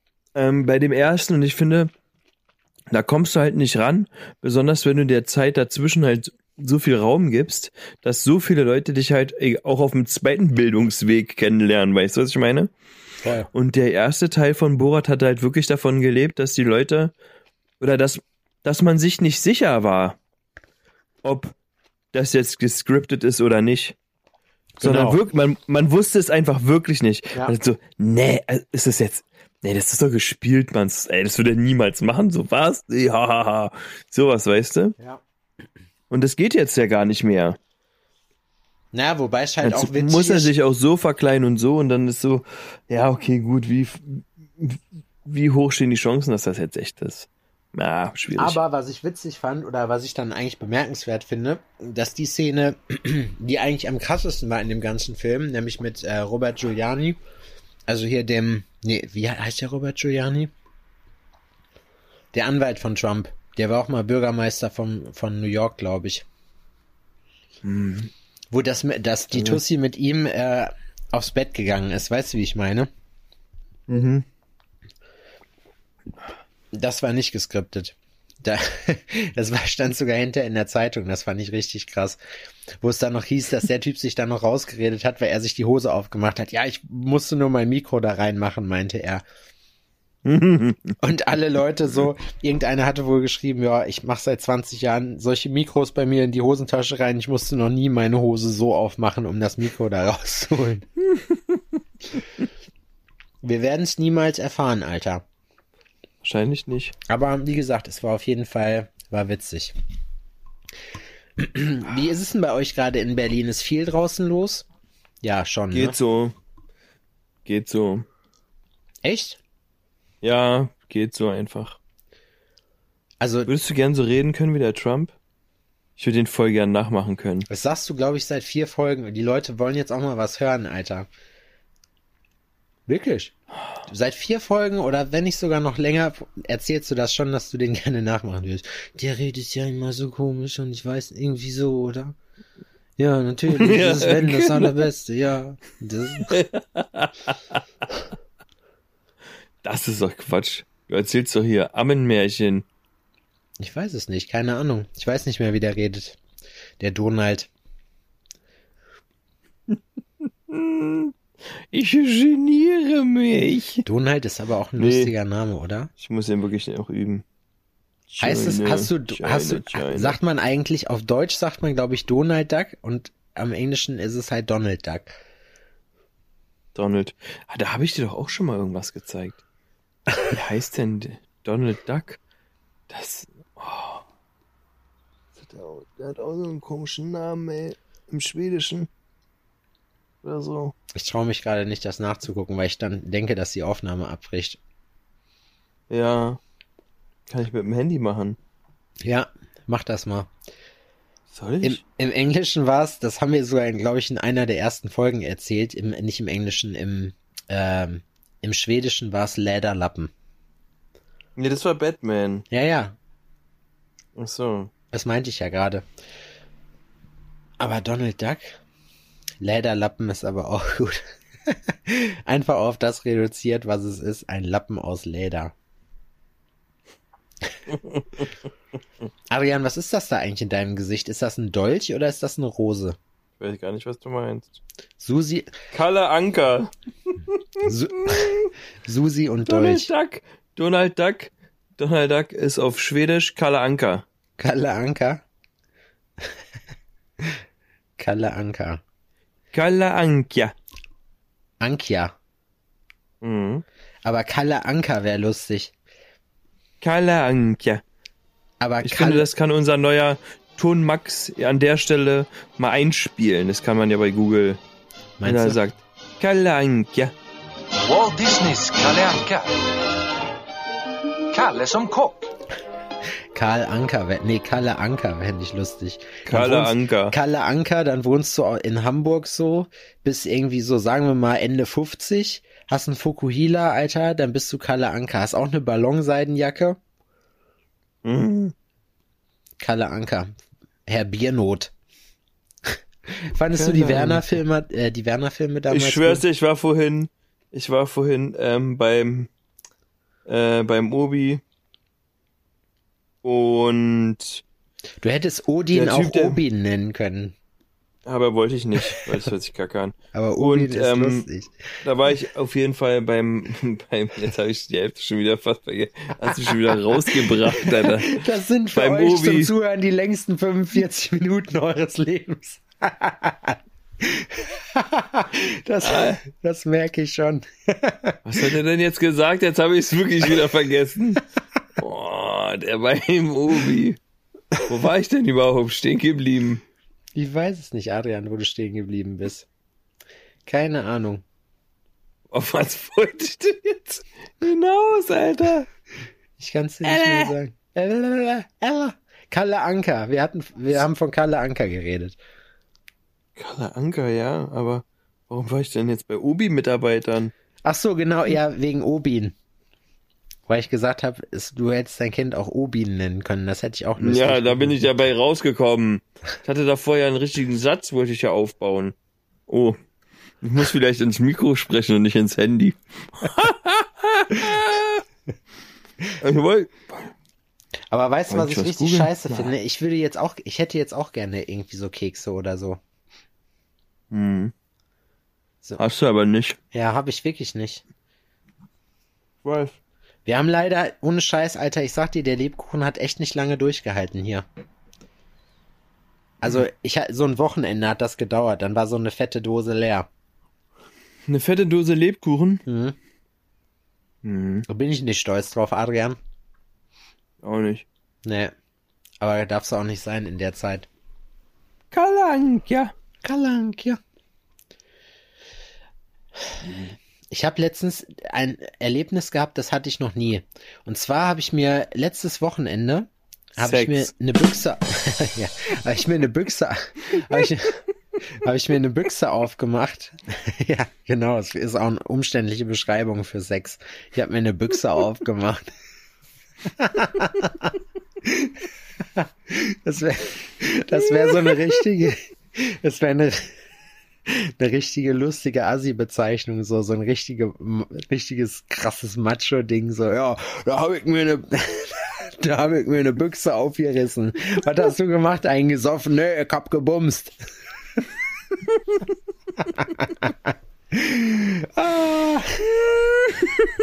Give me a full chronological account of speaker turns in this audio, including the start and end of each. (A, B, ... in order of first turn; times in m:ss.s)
0:00.3-0:01.9 A
0:02.9-0:12.7 A
0:13.2-0:13.5 B
0:13.5-0:17.1 A
0:17.8-0:20.2 A
0:21.2-0:21.5 A
0:22.1-0:24.0 A
0:24.8-0:25.2 B
0:24.8-0:35.0 A
0:36.1-0:37.6 A
0:38.9-0:40.5 B
0:39.6-0:48.6 A
0:48.4-0:57.2 B
0:57.9-1:00.5 B
1:02.3-1:06.3 B
1:07.6-1:08.1 A
1:08.5-1:12.9 B
1:09.3-1:09.6 A
1:13.9-1:14.3 A
1:16.7-1:22.2 B
1:22.8-1:29.2 B
1:30.2-1:31.0 A
1:31.0-1:40.9 B
1:43.4-1:45.2 B
1:46.2-1:47.0 A
1:47.1-1:49.8 B
1:51.4-1:54.7 B
1:55.2-1:56.0 B
1:55.7-1:56.3 A
1:57.4-1:58.0 A
1:59.0-1:59.4 B
2:00.2-2:01.8 A
2:03.2-2:03.5 B
2:03.5-2:05.1 A
2:06.0-2:07.4 A
2:07.5-2:11.1 B
2:12.9-2:13.3 B
2:13.9-2:22.2 B
2:23.0-2:26.3 B
2:23.5-2:24.9 A
2:26.2-2:27.6 A
2:29.6-2:32.6 A
2:33.6-2:36.2 B
2:36.8-2:37.5 B
2:40.5-2:41.1 A
2:41.7-2:43.8 A
2:43.9-2:45.9 B
2:44.8-2:45.1 A
2:46.0-2:47.2 A
2:48.1-2:50.2 A
2:48.2-2:55.2 B
2:56.7-2:59.4 A
3:00.3-3:02.2 A
3:02.9-3:04.0 A
3:05.4-3:08.9 A
3:10.2-3:10.7 A
3:10.9-3:14.6 B
3:15.9-3:16.4 A
3:17.3-3:18.4 A
3:19.0-3:20.3 B
3:21.3-3:21.8 A
3:21.6-3:30.1 B
3:31.4-3:32.4 A
3:32.5-3:33.0 B
3:34.2-3:34.7 A
3:34.9-3:35.8 B
3:37.6-3:38.6 B
3:39.4-3:45.5 B
3:49.3-3:53.0 B
3:53.4-3:54.6 A
3:55.0-3:55.5 B
3:55.7-3:56.7 A
3:57.3-3:58.5 A
3:57.6-3:59.9 B
3:59.4-4:04.0 A
4:04.4-4:05.2 B
4:08.0-4:08.8 B
4:09.5-4:10.5 A
4:11.6-4:12.1 B
4:13.2-4:13.6 A
4:14.0-4:15.7 B
4:16.8-4:17.8 A
4:18.6-4:19.3 B
4:18.8-4:24.6 A
4:25.2-4:25.6 B
4:25.2-4:27.1 A
4:27.9-4:29.6 C
4:31.3-4:32.3 C
4:33.3-4:46.8 B
4:36.3-4:37.1 A
4:48.0-4:48.5 A
4:49.6-4:51.7 B
4:52.7-4:56.2 B
4:53.5-4:54.4 A
4:55.7-4:59.3 A
5:00.3-5:01.4 A
5:03.2-5:04.4 A
5:05.0-5:07.4 B
5:05.7-5:06.4 A
5:08.0-5:11.3 A
5:10.1-5:11.8 B
5:11.8-5:18.2 A
5:17.6-5:28.2 B
5:18.7-5:19.5 A
5:25.8-5:26.2 A
5:28.2-5:31.2 A
5:31.8-5:34.0 A
5:34.6-5:36.6 A
5:37.1-5:39.5 B
5:40.4-5:41.2 B
5:42.3-5:45.7 A
5:46.4-5:52.2 B
5:46.8-5:47.3 A
5:53.4-5:57.3 A
5:57.6-5:59.3 B
6:00.5-6:04.7 B
6:04.0-6:09.0 A
6:09.5-6:09.8 A
6:10.4-6:15.0 A
6:16.2-6:17.1 A
6:17.9-6:22.8 B
6:18.3-6:19.5 A
6:24.1-6:24.5 A
6:25.8-6:26.6 A
6:26.7-6:27.8 B
6:29.4-6:29.7 A
6:30.3-6:34.4 B
6:36.4-6:40.1 B
6:41.3-6:42.6 A
6:42.7-6:43.0 B
6:44.2-6:44.7 A
6:44.7-6:46.2 B
6:47.4-6:47.8 A
6:48.2-6:48.5 B
6:49.2-6:50.9 B
6:51.9-6:52.9 A
6:53.2-6:54.0 B
6:57.3-7:07.8 B
7:03.6-7:04.1 A
7:08.4-7:15.7 B
7:16.8-7:18.6 B
7:19.1-7:23.5 B
7:24.3-7:37.4 B
7:39.8-7:42.8 B